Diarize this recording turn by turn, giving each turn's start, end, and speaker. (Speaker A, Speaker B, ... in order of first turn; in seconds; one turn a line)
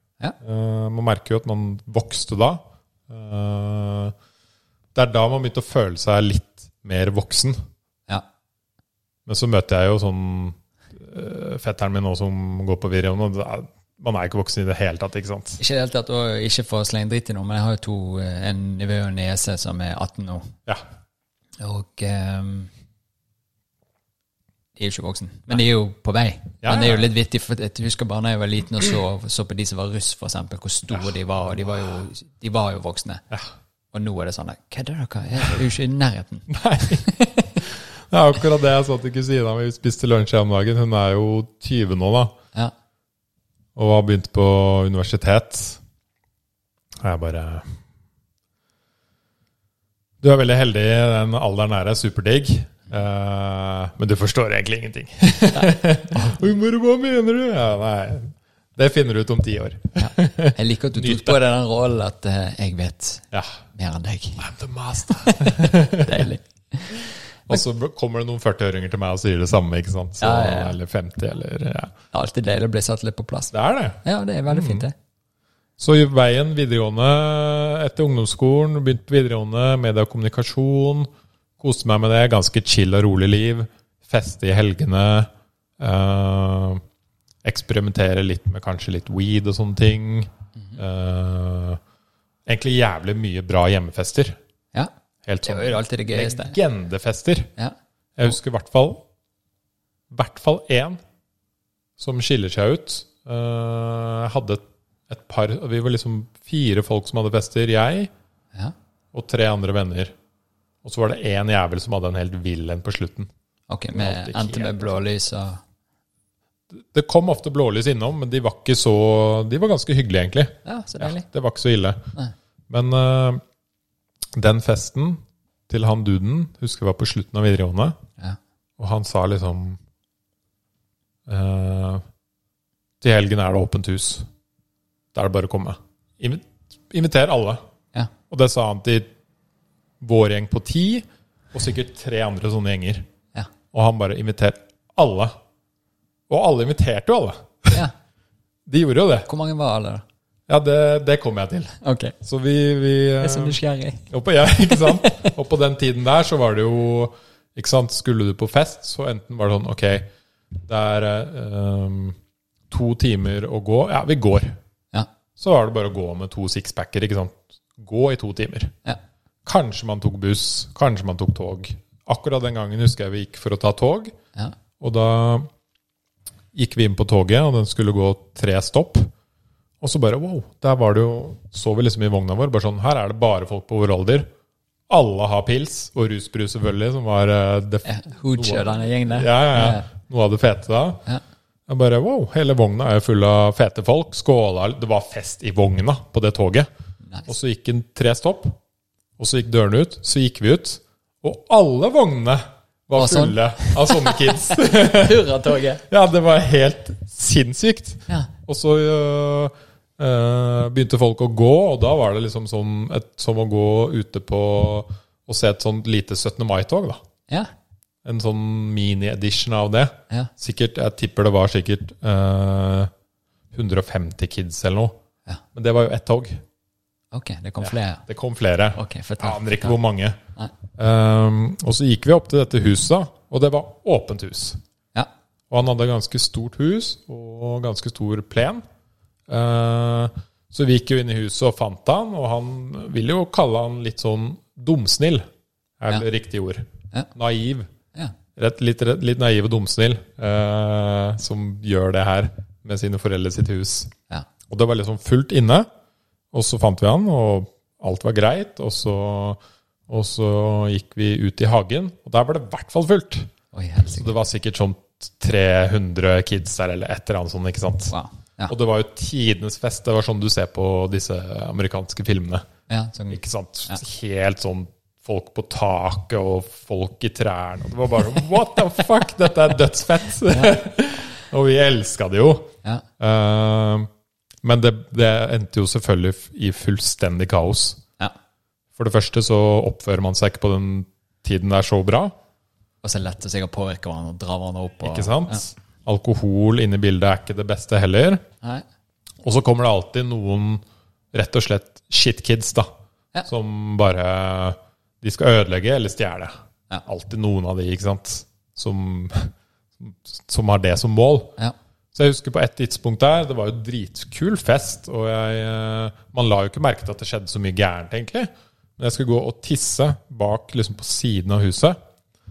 Speaker A: 0.4-4.1
Speaker A: 4.9-7.6
Speaker A: 9.3-15.6
Speaker B: 15.6-20.5
Speaker B: 21.6-22.7
Speaker B: 24.8-33.2
Speaker A: 26.6-27.1
Speaker B: 33.9-37.6
Speaker A: 36.5-37.1
Speaker A: 37.6-42.4
Speaker A: 43.8-45.8
Speaker A: 47.0-47.7
Speaker A: 50.2-61.4
Speaker B: 55.5-56.4
Speaker B: 60.0-64.5
Speaker A: 64.4-66.3
Speaker B: 65.1-67.6
Speaker A: 67.5-71.9
Speaker B: 70.2-70.8
Speaker B: 72.1-74.9
Speaker A: 73.5-74.8
Speaker A: 75.8-86.8
Speaker A: 87.4-91.8
Speaker B: 90.6-90.8
Speaker A: 92.5-94.4
Speaker A: 95.2-97.5
Speaker B: 95.4-96.6
Speaker A: 98.2-99.0
Speaker A: 100.1-101.0
Speaker A: 102.0-108.1
Speaker A: 109.1-110.1
Speaker A: 110.8-113.3
Speaker B: 113.7-115.6
Speaker A: 113.9-115.0
Speaker A: 116.7-122.1
Speaker B: 120.6-121.2
Speaker A: 122.7-123.4
Speaker A: 124.3-128.0
Speaker A: 128.8-129.8
Speaker A: 131.3-132.0
Speaker A: 133.0-134.3
Speaker A: 135.1-137.6
Speaker A: 138.3-139.1
Speaker A: 140.0-143.1
Speaker A: 143.7-145.3
Speaker A: 146.3-147.8
Speaker A: 148.7-149.3
Speaker B: 149.2-150.0
Speaker A: 150.5-153.6
Speaker B: 151.8-152.1
Speaker B: 153.2-154.1
Speaker A: 154.1-160.1
Speaker B: 154.6-155.3
Speaker A: 160.6-162.2
Speaker A: 162.7-164.6
Speaker A: 165.4-168.7
Speaker A: 169.4-174.1
Speaker A: 174.8-175.5
Speaker A: 176.5-179.1
Speaker A: 179.8-184.3
Speaker A: 184.9-191.1
Speaker B: 187.8-189.9
Speaker A: 191.7-196.7
Speaker A: 197.3-198.6
Speaker A: 199.2-205.3
Speaker B: 203.0-205.8
Speaker A: 205.9-217.0
Speaker A: 218.0-222.9
Speaker A: 223.5-225.0
Speaker A: 225.5-226.4
Speaker B: 227.1-228.0
Speaker A: 227.6-230.2
Speaker B: 228.7-229.8
Speaker A: 230.8-234.6
Speaker A: 235.5-238.6
Speaker A: 239.3-245.2
Speaker A: 245.8-247.7
Speaker A: 248.3-253.9
Speaker A: 254.5-255.7
Speaker A: 256.3-263.3
Speaker B: 263.5-264.1
Speaker A: 263.9-267.9
Speaker B: 267.9-268.5
Speaker A: 268.5-272.4
Speaker B: 272.7-273.8
Speaker A: 273.1-283.9
Speaker B: 280.3-280.6
Speaker A: 284.4-287.8
Speaker A: 288.8-292.1
Speaker B: 292.8-295.4
Speaker A: 294.8-298.2
Speaker A: 299.2-302.7
Speaker A: 303.2-306.3
Speaker A: 306.8-311.4
Speaker A: 311.9-321.8